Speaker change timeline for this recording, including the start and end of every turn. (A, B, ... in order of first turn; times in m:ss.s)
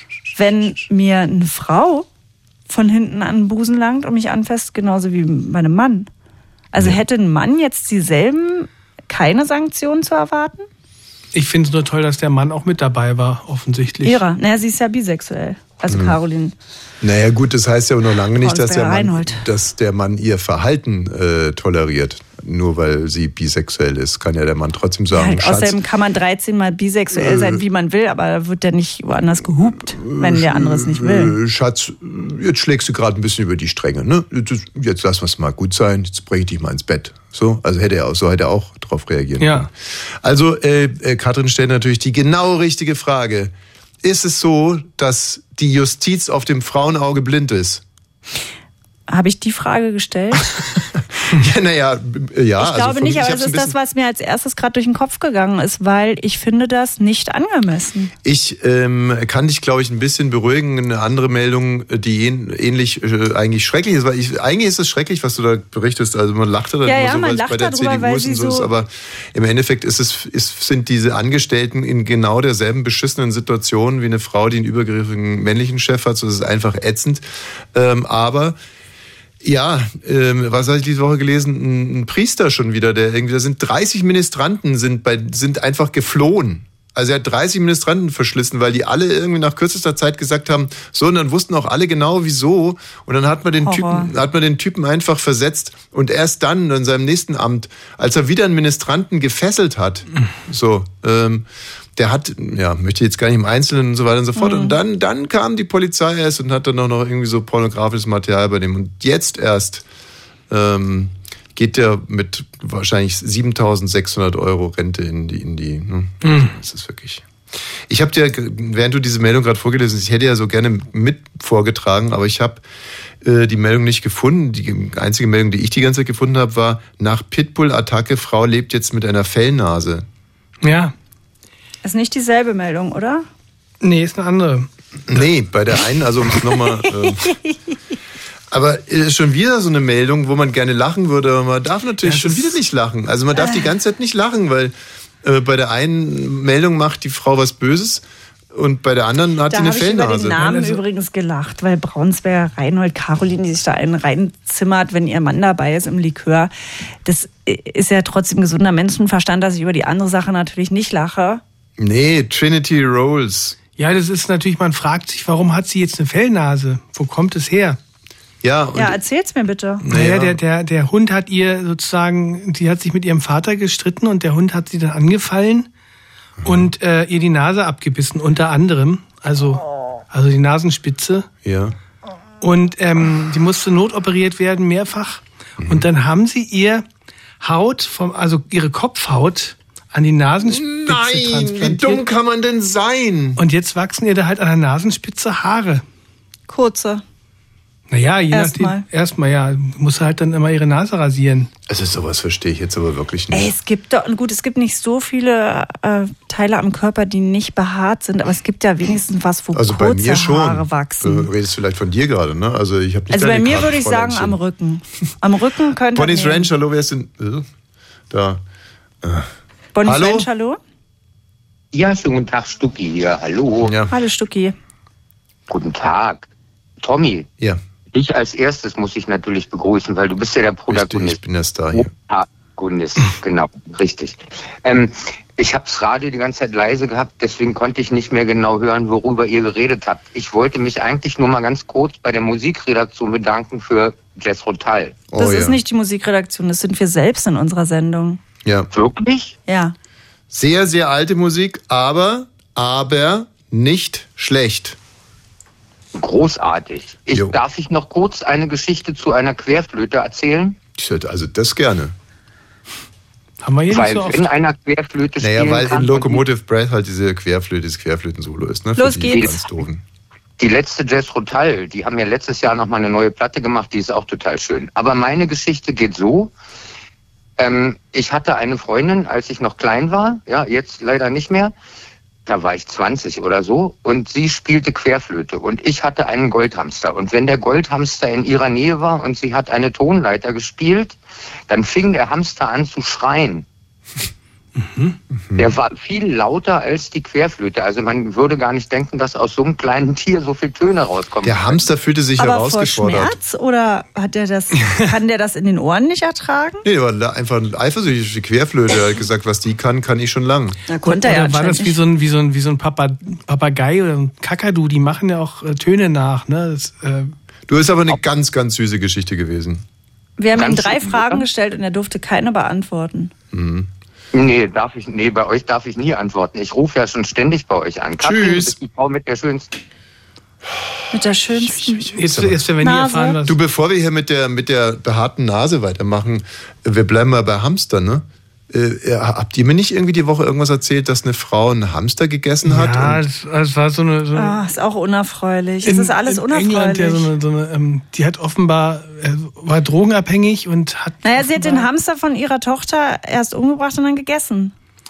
0:00.4-0:02.1 A
0:02.7-0:06.1 A
0:06.7-0:10.7 A
0:11.3-0:14.2 B
0:14.0-0:16.5 A
0:15.9-0:16.2 C
0:17.0-0:25.8 C
0:18.4-0:19.4 A
0:25.1-0:31.4 A
0:27.2-0:27.6 C
0:30.0-0:43.5 C
0:39.4-0:39.7 B
0:44.0-0:47.8 C
0:49.1-0:50.5 A
0:50.8-0:53.7 C
0:52.6-0:58.1 A
0:58.2-1:18.6 C
1:06.9-1:08.7 A
1:19.4-1:41.4 C
1:33.6-1:34.1 A
1:42.0-1:49.8 C
1:44.4-1:44.8 A
1:50.5-1:57.2 C
1:56.2-1:56.6 B
1:57.9-2:02.6 C
2:03.2-2:10.0 C
2:10.6-2:11.0 B
2:11.8-2:13.2 A
2:13.8-2:14.7 B
2:15.1-2:17.4 C
2:16.8-2:17.6 A
2:18.5-2:30.6 C
2:22.0-2:22.6 B
2:23.4-2:23.7 A
2:29.5-2:36.5 A
2:30.4-2:30.8 B
2:37.0-2:41.4 A
2:41.8-2:43.6 C
2:43.8-2:47.8 B
2:48.4-2:49.0 C
2:48.8-2:49.8 A
2:49.8-2:55.7 B
2:49.9-2:50.4 C
2:56.4-2:56.7 C
2:56.4-3:01.3 B
3:01.4-3:01.8 C
3:02.4-3:06.9 B
3:05.6-3:05.8 C
3:07.4-3:12.0 B
3:10.5-3:13.4 C
3:13.4-3:15.8 B
3:16.5-3:17.0 A
3:17.9-3:21.5 B
3:18.3-3:18.8 A
3:21.7-3:23.5 C
3:23.3-3:31.3 A
3:29.5-3:34.4 C
3:33.1-3:36.5 A
3:35.9-3:37.5 C
3:38.1-3:38.4 C
3:39.0-3:39.3 C
3:39.8-3:40.6 A
3:39.8-3:40.3 C
3:41.7-3:43.8 D
3:43.6-3:43.9 C
3:43.9-3:44.6 A
3:45.5-3:46.3 D
3:46.8-3:47.3 D
3:47.9-3:51.2 D
3:50.7-3:51.9 C
3:51.7-4:05.0 D
4:05.1-4:05.6 C
4:05.2-4:08.2 A
4:08.7-4:09.4 D
4:09.5-4:09.8 A
4:10.3-4:14.8 C
4:16.0-4:20.6 D
4:17.1-4:17.4 C
4:20.8-4:21.9 C
4:23.4-4:24.3 B
4:23.7-4:26.2 D
4:25.2-4:29.8 C
4:28.8-4:29.5 A
4:29.1-4:29.4 D
4:30.4-4:36.3 D
4:37.4-4:41.5 D
4:42.3-4:51.0 D
4:51.5-4:53.5 D
4:54.6-4:55.0 B
4:55.4-5:01.6 D
5:01.2-5:03.2 C
5:02.2-5:06.6 A
5:06.6-5:10.6 C
5:10.7-5:11.8 A
5:10.8-5:17.1 B
5:17.5-5:19.6 C
5:20.2-5:23.1 A
5:20.4-5:21.2 D
5:23.3-5:23.7 C
5:24.1-5:29.6 D
5:28.0-5:28.6 C
5:30.6-5:30.9 C
5:30.9-5:31.9 A
5:31.5-5:32.5 C
5:31.9-5:33.4 B
5:32.6-5:33.2 A
5:33.3-5:43.0 C
5:42.4-5:44.4 B
5:44.2-5:47.1 A
5:45.6-5:51.7 B
5:51.0-5:54.5 A